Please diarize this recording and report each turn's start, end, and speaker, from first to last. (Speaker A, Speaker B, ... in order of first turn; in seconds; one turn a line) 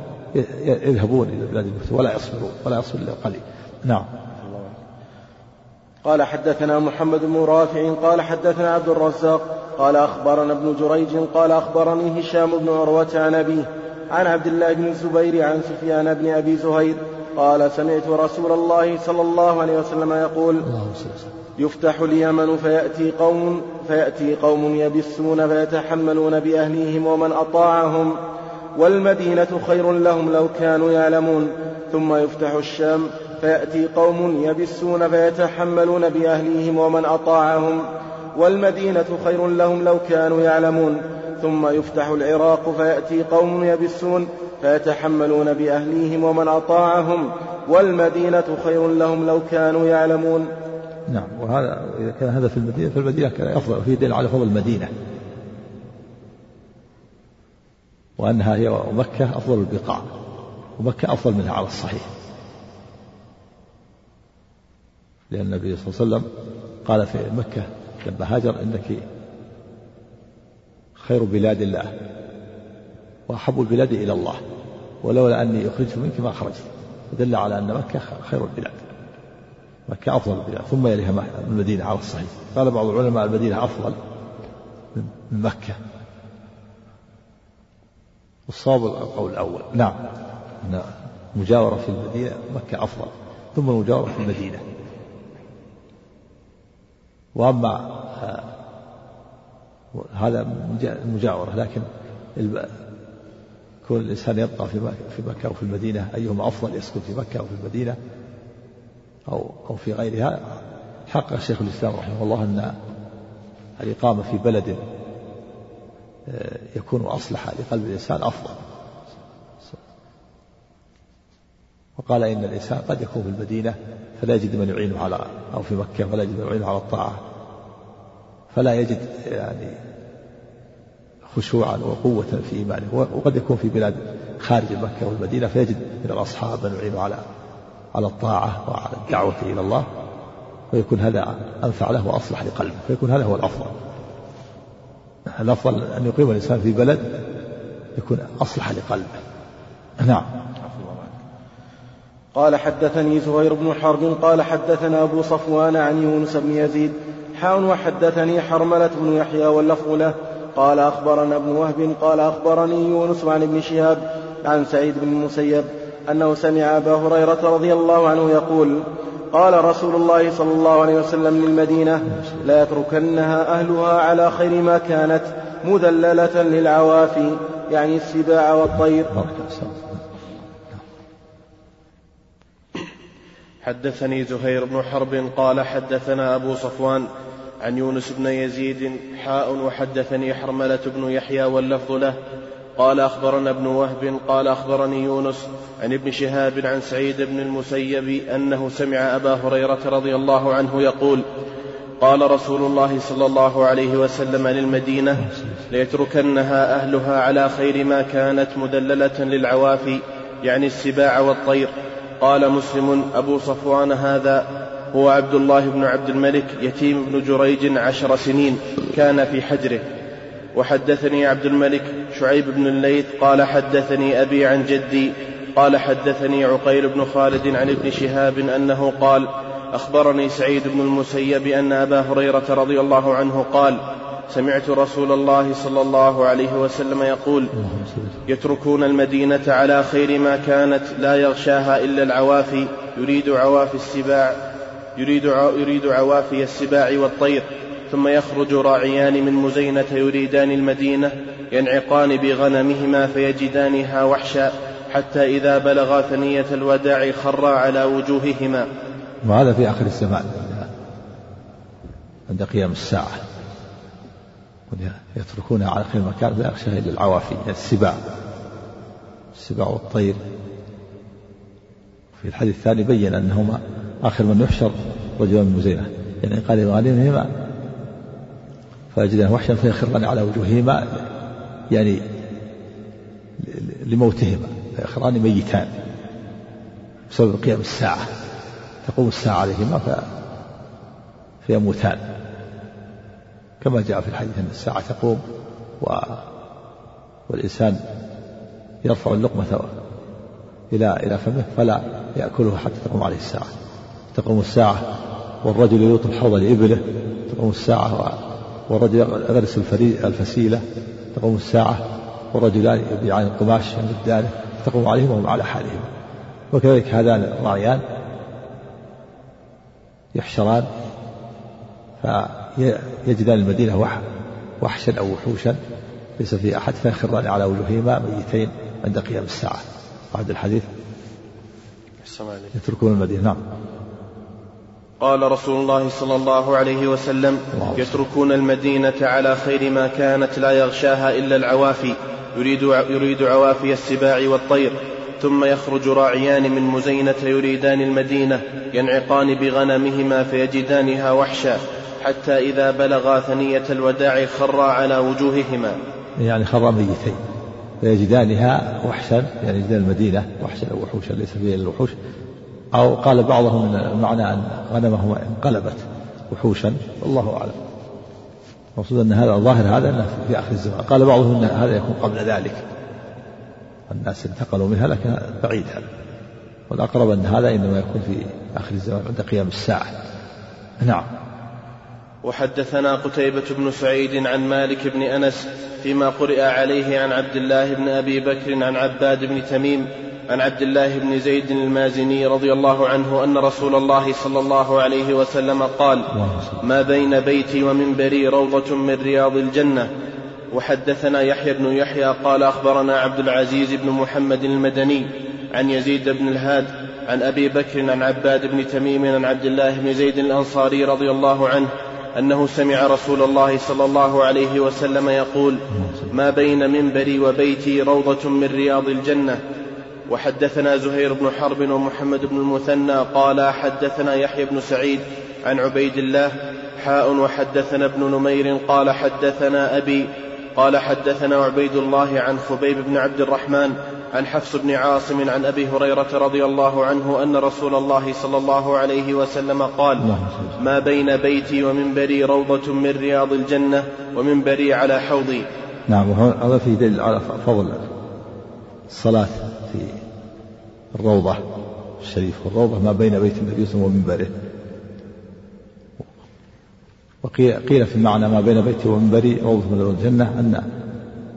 Speaker A: 0.3-4.1
Speaker B: 6.0-20.7
Speaker A: 20.6-21.3
Speaker B: 21.6-28.2
Speaker B: 28.8-50.5
Speaker A: 51.1-54.9
Speaker A: 58.2-60.1
Speaker A: 60.8-62.1
Speaker A: 65.3-66.3
Speaker A: 66.8-69.0
Speaker A: 71.0-71.9
Speaker A: 73.3-74.4
Speaker A: 75.0-78.8
Speaker A: 79.9-84.0
Speaker A: 84.9-85.8
Speaker A: 88.5-90.0
Speaker A: 90.6-94.6
Speaker A: 97.4-98.5
Speaker A: 99.9-102.7
Speaker A: 103.8-108.0
Speaker A: 109.3-110.4
Speaker A: 111.1-112.8
Speaker A: 113.8-114.8
Speaker A: 116.3-118.6
Speaker A: 122.0-127.2
Speaker A: 128.5-129.8
Speaker A: 131.3-137.2
Speaker A: 137.9-139.9
Speaker A: 140.7-143.8
Speaker A: 145.3-147.1
Speaker A: 147.9-149.2
Speaker A: 150.0-150.3
Speaker B: 152.3-179.1
Speaker A: 179.1-180.0
Speaker C: 183.6-187.1
Speaker C: 187.6-192.2
Speaker C: 192.8-201.2
Speaker C: 202.0-219.8
Speaker A: 205.2-205.7
Speaker C: 220.6-237.5
Speaker A: 237.6-238.2
Speaker C: 238.3-244.4
Speaker C: 245.0-258.7
Speaker A: 259.2-260.7
Speaker A: 262.3-263.2
Speaker A: 264.7-268.0
Speaker A: 269.3-270.2
Speaker A: 272.2-277.3
Speaker A: 278.9-280.9
Speaker A: 281.7-282.0
Speaker A: 283.4-285.8
Speaker A: 287.1-288.1
Speaker A: 288.8-290.0
Speaker A: 291.4-292.0
Speaker A: 293.6-295.2
Speaker A: 295.8-296.2
Speaker A: 297.3-297.8
Speaker A: 298.8-299.7
Speaker A: 300.7-303.5
Speaker A: 304.1-304.8
Speaker A: 305.4-310.6
Speaker A: 311.1-315.9
Speaker A: 316.5-317.8
Speaker A: 320.1-320.7
Speaker A: 322.0-324.0
Speaker A: 324.6-325.6
Speaker A: 326.2-330.7
Speaker C: 332.0-332.5
Speaker A: 332.5-333.4
Speaker C: 335.0-355.8
Speaker A: 337.5-338.0
Speaker A: 356.2-357.2
Speaker A: 357.8-361.9
Speaker A: 362.7-367.6
Speaker A: 368.8-372.6
Speaker A: 373.9-375.8
Speaker A: 376.7-379.9
Speaker A: 380.8-381.1
Speaker C: 382.2-396.1
Speaker A: 396.1-396.6
Speaker C: 396.6-399.9
Speaker C: 400.5-419.4
Speaker A: 415.7-416.1
Speaker C: 420.1-440.1
Speaker A: 440.0-440.6
Speaker C: 440.6-445.5
Speaker A: 445.9-447.9
Speaker A: 448.9-450.0
Speaker A: 450.9-451.4
Speaker A: 452.0-454.3
Speaker A: 457.2-460.6